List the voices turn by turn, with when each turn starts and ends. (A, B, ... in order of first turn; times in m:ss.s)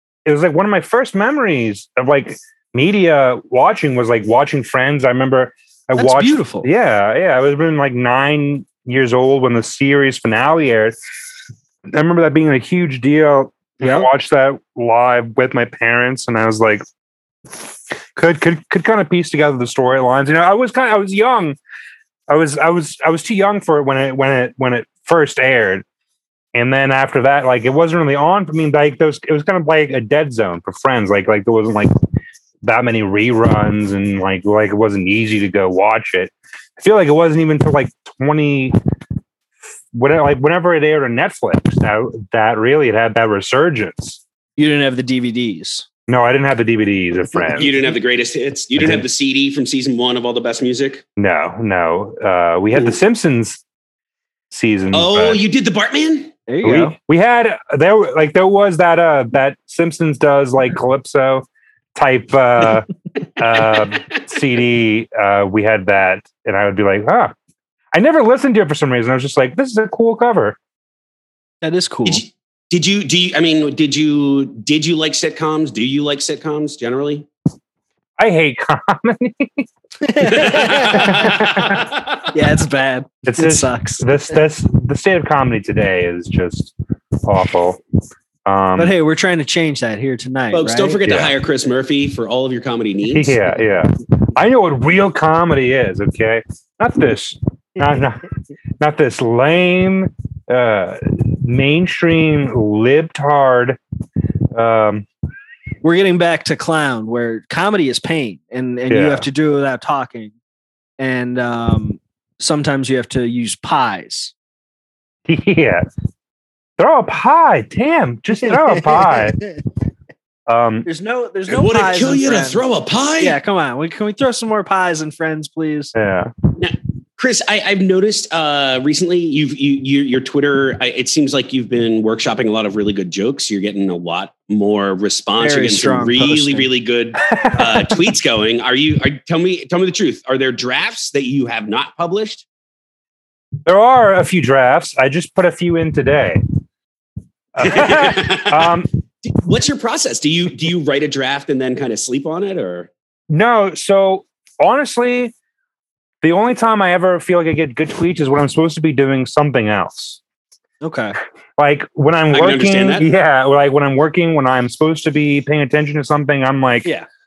0:00.2-0:11.0 A
0:06.0-0:06.7 B
0:11.9-0:16.8 A
0:13.8-0:14.1 B
0:18.2-0:21.6 A
0:22.3-0:25.8 A
0:26.6-0:31.9 A
0:32.6-0:38.8 A
0:39.9-0:44.2 A
0:44.6-0:45.9 B
0:46.1-0:47.7 A
0:47.3-0:47.8 B
0:47.6-0:51.0 C
0:48.8-0:49.0 A
0:51.2-0:53.6 A
0:54.5-0:55.4 A
0:54.9-0:56.4 C
0:56.5-0:57.0 B
0:56.6-1:07.3 A
1:03.7-1:04.2 C
1:07.9-1:10.6 A
1:11.6-1:12.2 B
1:12.1-1:17.3 C
1:18.2-1:19.7 A
1:20.0-1:21.3 B
1:20.2-1:22.3 C
1:20.9-1:21.9 A
1:22.3-1:24.1 B
1:23.3-1:27.8 A
1:28.5-1:28.9 A
1:28.8-1:31.0 B
1:30.5-1:33.4 C
1:31.1-1:31.4 A
1:33.1-1:43.8 A
1:44.5-1:45.1 A
1:45.8-1:50.3 B
1:48.9-1:49.3 A
1:51.0-1:54.3 B
1:55.3-1:55.8 A
1:56.8-1:59.4 A
2:00.5-2:00.9 A
2:00.8-2:02.6 B
2:01.5-2:03.4 C
2:03.2-2:05.9 B
2:05.9-2:06.3 A
2:06.6-2:22.4 C
2:15.4-2:16.7 B
2:17.3-2:17.8 A
2:23.6-2:26.4 A
2:27.6-2:28.9 A
2:27.6-2:32.9 C
2:33.3-2:35.3 A
2:36.2-2:40.2 A
2:40.8-2:41.2 B
2:41.6-2:46.9 A
2:42.3-2:43.1 C